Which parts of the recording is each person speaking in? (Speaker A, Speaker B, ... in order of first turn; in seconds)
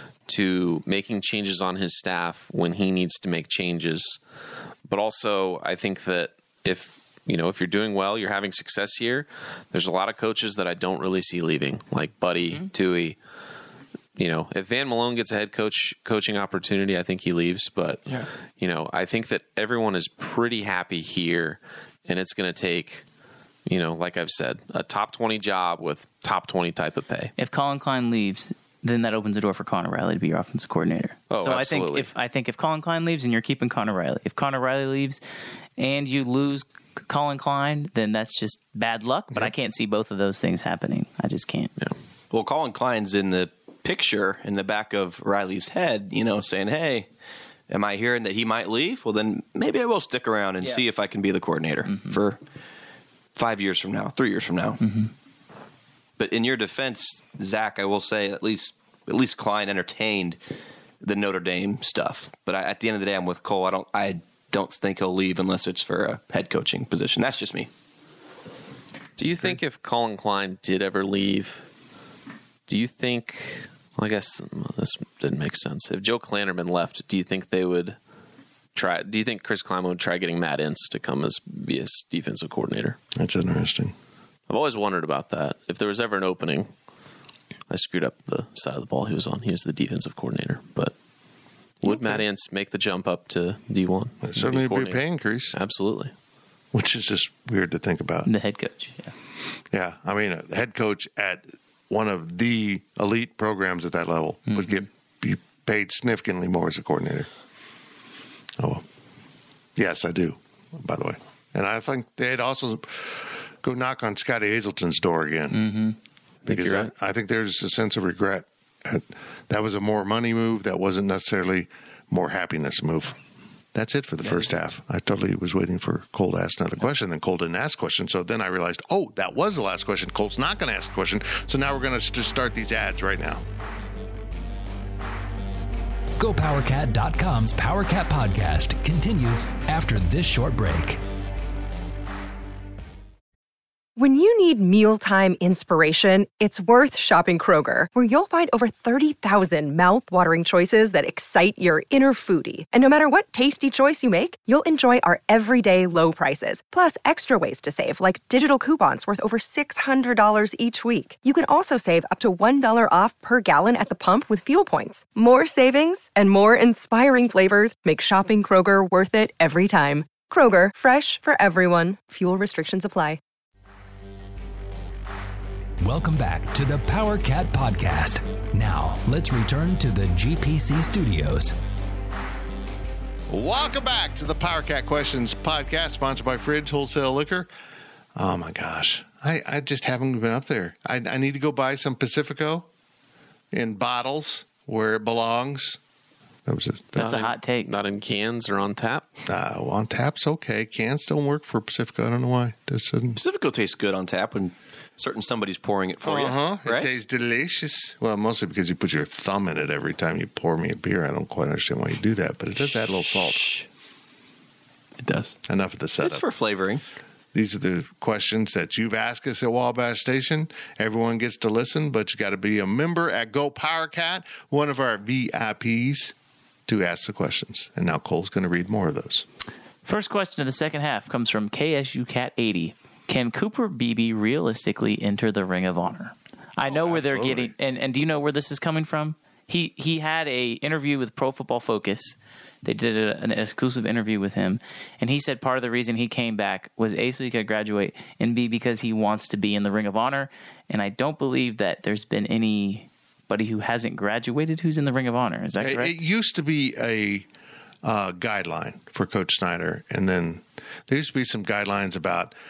Speaker A: 0.3-4.2, 4.8-13.2, 14.2-23.0, 23.7-27.3, 31.3-32.1, 69.2-71.7, 72.7-78.0, 78.7-83.0, 84.5-86.7, 87.7-90.9, 91.8-96.1, 116.4-116.9, 197.0-199.2
Speaker B: 27.4-35.2, 35.8-41.7, 51.9-52.2, 54.8-55.1, 98.2-99.1, 104.5-104.8, 115.5-116.0, 196.9-197.7, 229.8-255.9
Speaker C: 42.3-47.1, 47.7-52.4, 53.3-54.8, 56.2-60.4, 61.0-67.7, 203.2-206.9, 215.0-215.4, 216.0-216.8
Speaker D: 83.1-83.9, 94.2-95.5, 96.7-98.3, 99.7-107.3, 108.6-108.8, 109.8-115.6, 116.5-123.2, 123.7-133.4, 183.3-187.5, 188.1-192.7, 193.5-195.8, 196.4-197.0, 199.3-203.2, 206.0-213.6, 215.5-216.2, 217.3-226.1, 226.7-229.3, 236.6-237.5, 255.6-257.3, 257.8-262.3
Speaker E: 136.2-141.0, 175.8-181.5
Speaker F: 143.9-173.2